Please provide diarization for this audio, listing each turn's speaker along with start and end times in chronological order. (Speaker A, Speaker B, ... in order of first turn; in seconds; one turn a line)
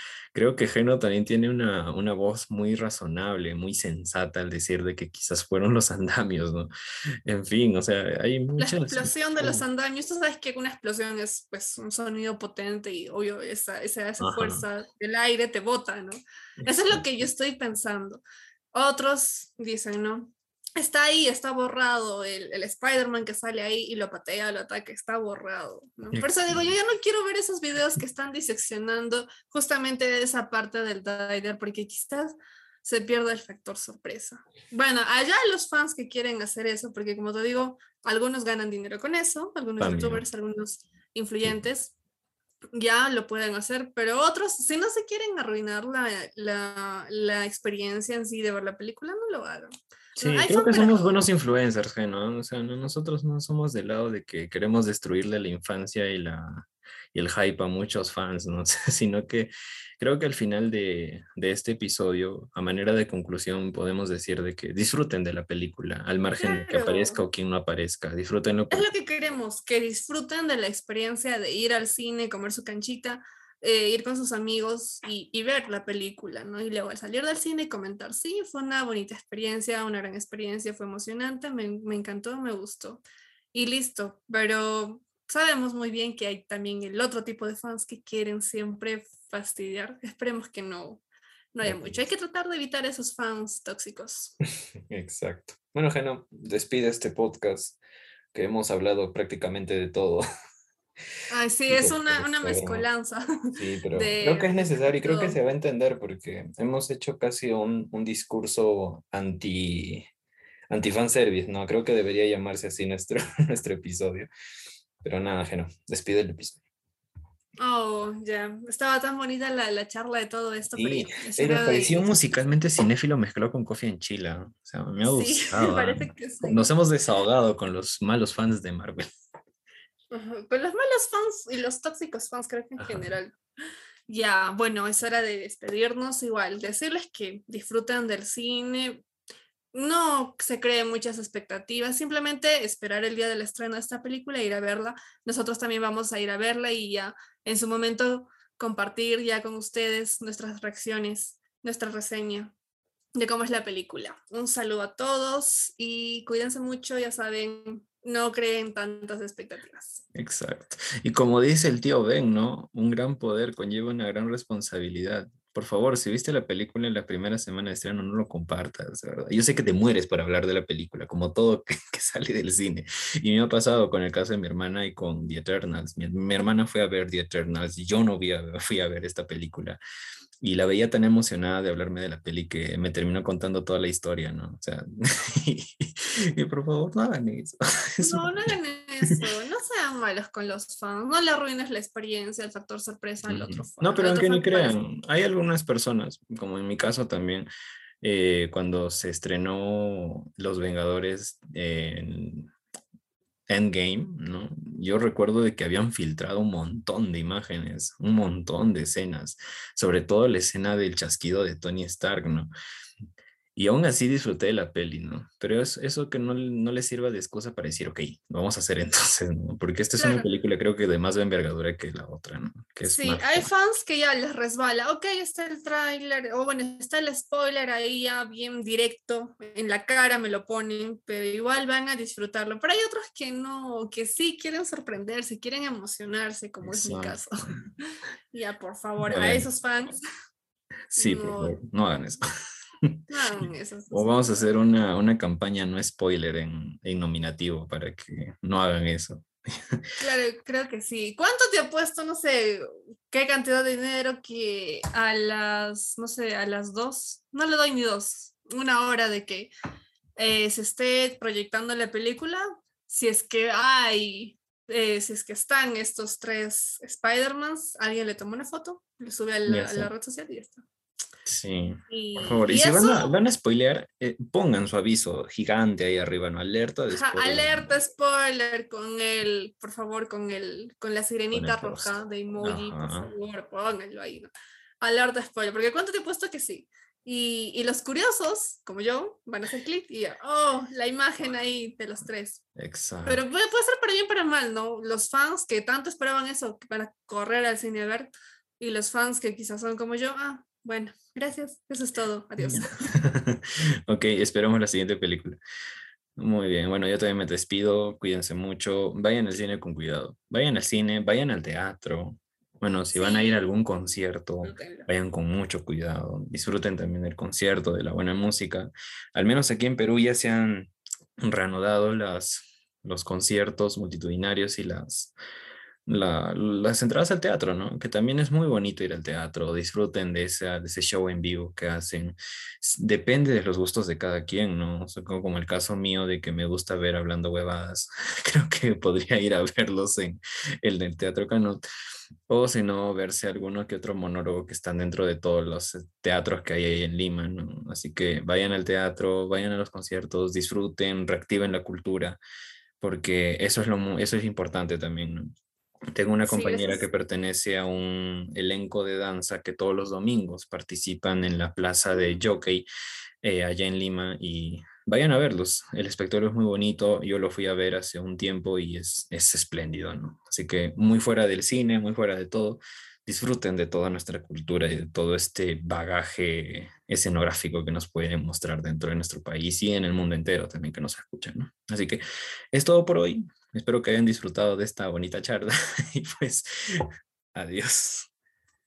Speaker A: 0.3-6.7
Speaker A: 7.3-9.6
Speaker B: 8.6-18.2
Speaker A: 14.2-14.6
Speaker A: 16.6-17.0
Speaker B: 18.7-42.0
Speaker A: 26.1-26.7
Speaker A: 39.8-40.2
Speaker B: 42.8-51.2
Speaker A: 50.2-68.9
Speaker B: 66.4-67.2
Speaker B: 68.7-83.0
Speaker B: 83.5-91.0
Speaker B: 91.5-94.3
Speaker A: 91.6-92.0
Speaker A: 94.9-97.8
Speaker A: 98.3-100.2
Speaker B: 101.3-105.4
Speaker A: 101.7-102.9
Speaker A: 103.5-110.1
Speaker A: 110.7-114.3
Speaker A: 115.0-116.6
Speaker B: 117.6-122.0
Speaker A: 120.7-129.1
Speaker B: 125.0-126.7
Speaker B: 130.1-133.4
Speaker A: 132.8-133.1
Speaker B: 134.1-139.0
Speaker B: 139.7-152.5
Speaker B: 153.2-160.0
Speaker A: 160.1-179.8
Speaker A: 180.4-188.5
Speaker B: 188.0-194.8
Speaker A: 193.2-197.5
Speaker A: 198.0-202.5
Speaker A: 203.5-212.5
Speaker A: 213.6-223.5
Speaker B: 220.0-220.3
Speaker B: 222.8-240.0
Speaker A: 236.6-237.6
Speaker A: 239.1-239.5
Speaker B: 241.0-241.6
Speaker A: 241.0-242.2
Speaker B: 243.1-244.5
Speaker A: 243.9-249.8
Speaker B: 250.0-259.5
Speaker B: 260.2-270.6
Speaker A: 269.5-269.9
Speaker A: 271.3-277.7
Speaker B: 271.9-273.2
Speaker B: 276.9-292.4
Speaker A: 281.3-283.1
Speaker A: 292.6-293.2
Speaker B: 293.1-302.7
Speaker A: 302.4-305.4
Speaker A: 306.2-325.1
Speaker B: 312.9-313.4
Speaker B: 314.4-314.9
Speaker A: 325.9-341.6
Speaker A: 342.3-352.2
Speaker A: 352.8-355.3
Speaker A: 355.9-362.7
Speaker B: 356.2-356.9
Speaker A: 363.2-382.0
Speaker A: 382.5-388.1